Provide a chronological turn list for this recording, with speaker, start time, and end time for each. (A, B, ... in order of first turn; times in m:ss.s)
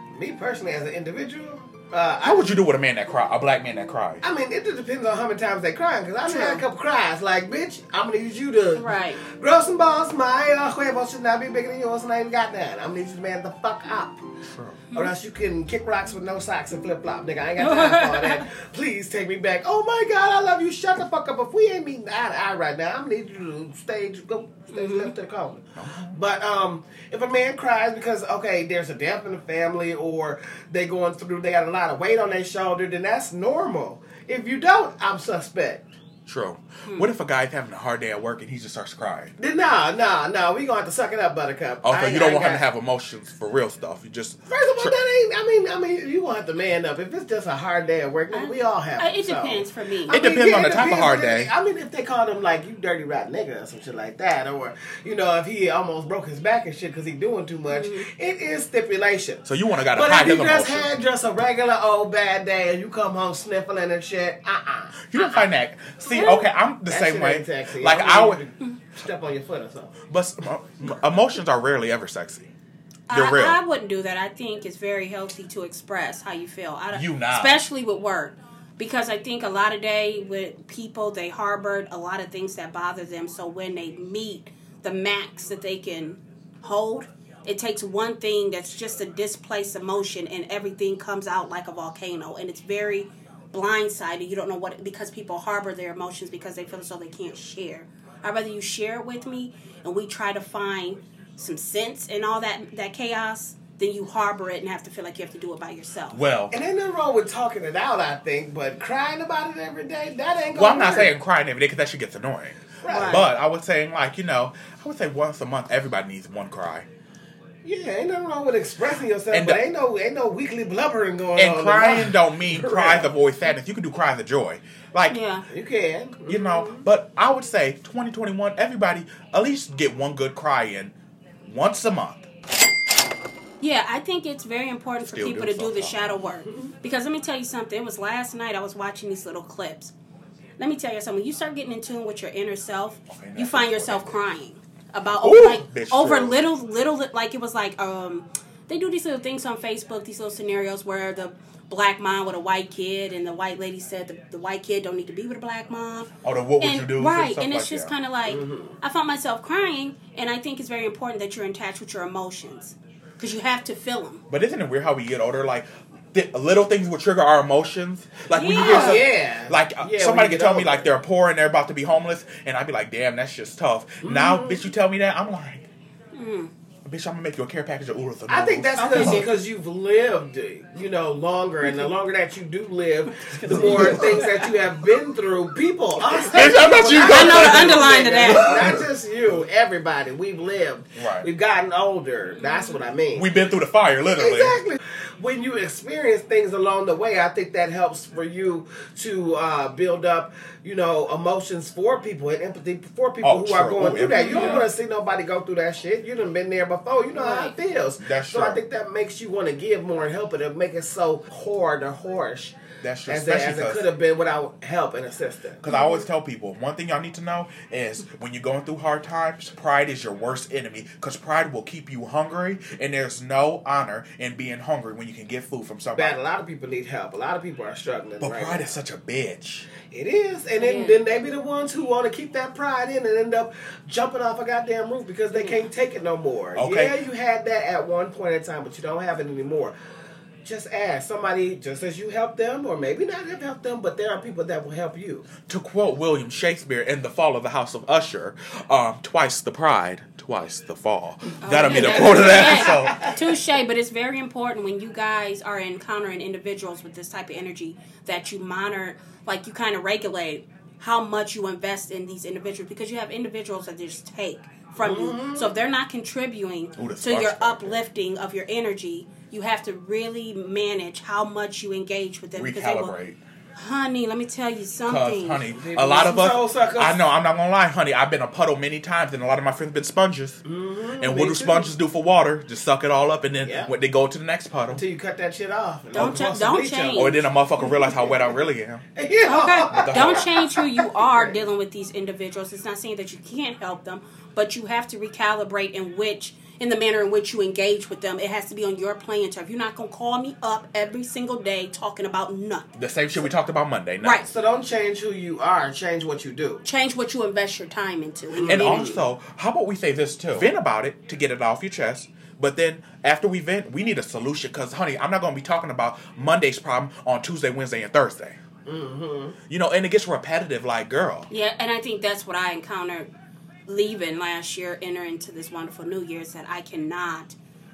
0:00.1-0:02.6 A
0:02.2-0:04.2 B
0:04.2-0:14.2 A
0:06.3-0:06.6 C
0:08.8-0:09.2 C
0:14.5-0:14.8 B
0:14.9-0:35.8 A
0:17.6-0:18.4 C
0:24.7-0:25.1 C
0:25.8-0:26.2 B
0:36.3-0:39.3 B
0:39.4-0:42.6 A
0:41.8-0:45.0 B
0:44.5-1:05.4 A
0:48.3-0:50.1 C
0:50.1-0:51.5 B
0:57.7-0:58.1 C
0:59.5-1:01.0 B
1:05.1-1:08.4 B
1:06.1-1:06.5 C
1:06.9-1:09.9 A
1:10.1-1:12.6 B
1:13.1-1:46.2 C
1:13.1-1:13.6 B
1:16.9-1:17.6 B
1:46.1-1:46.6 B
1:46.5-1:51.1 A
1:50.5-1:56.9 B
1:52.8-1:53.3 A
1:52.9-1:53.2 C
1:57.6-2:03.1 A
1:59.3-1:59.6 B
2:01.4-2:05.2 B
2:05.1-2:05.5 C
2:05.5-2:06.9 A
2:06.3-2:12.3 B
2:13.6-2:19.9 C
2:15.1-2:16.1 B
2:20.6-2:44.2 C
2:23.1-2:24.2 B
2:25.2-2:26.4 B
2:36.2-2:37.9 B
2:38.3-2:38.8 A
2:44.3-2:55.7 B
2:48.3-2:49.1 C
2:48.5-2:50.9 A
2:54.0-2:54.6 A
2:56.1-2:56.5 C
2:56.8-2:59.2 B
2:58.3-3:13.3 A
2:58.8-2:59.3 C
3:03.5-3:04.2 B
3:03.8-3:04.1 C
3:06.1-3:08.9 B
3:06.4-3:08.7 C
3:11.0-3:11.3 B
3:12.4-3:12.8 C
3:13.1-3:14.6 B
3:14.2-3:35.6 A
3:23.2-3:24.6 B
3:24.1-3:24.7 C
3:27.2-3:27.6 C
3:28.0-3:28.6 B
3:32.8-3:33.9 B
3:35.6-3:46.2 B
3:35.7-3:36.1 C
3:46.0-3:48.7 A
3:48.2-3:49.7 B
3:49.8-3:59.8 A
3:50.6-3:51.0 C
3:55.3-3:55.6 C
3:56.6-3:57.0 B
4:00.4-4:05.3 A
4:05.5-4:13.2 B
4:11.4-4:32.9 C
4:11.6-4:13.2 A
4:24.8-4:25.5 A
4:26.8-4:27.8 B
4:32.4-4:33.2 B
4:33.6-4:35.4 C
4:34.9-4:40.4 B
4:35.5-4:37.0 A
4:40.4-4:41.7 A
4:41.0-4:44.8 B
4:43.4-4:43.7 A
4:44.7-4:48.4 A
4:45.9-4:47.2 C
4:47.0-4:48.8 B
4:49.0-4:51.4 A
4:49.2-5:02.7 C
4:49.7-4:50.3 B
5:02.8-5:04.3 B
5:04.0-5:04.3 C
5:04.3-5:06.6 A
5:06.6-5:09.0 C
5:08.3-5:09.0 A
5:08.4-5:18.4 B
5:18.7-5:19.4 A
5:19.5-5:21.3 B
5:21.3-5:23.1 C
5:23.7-5:27.4 C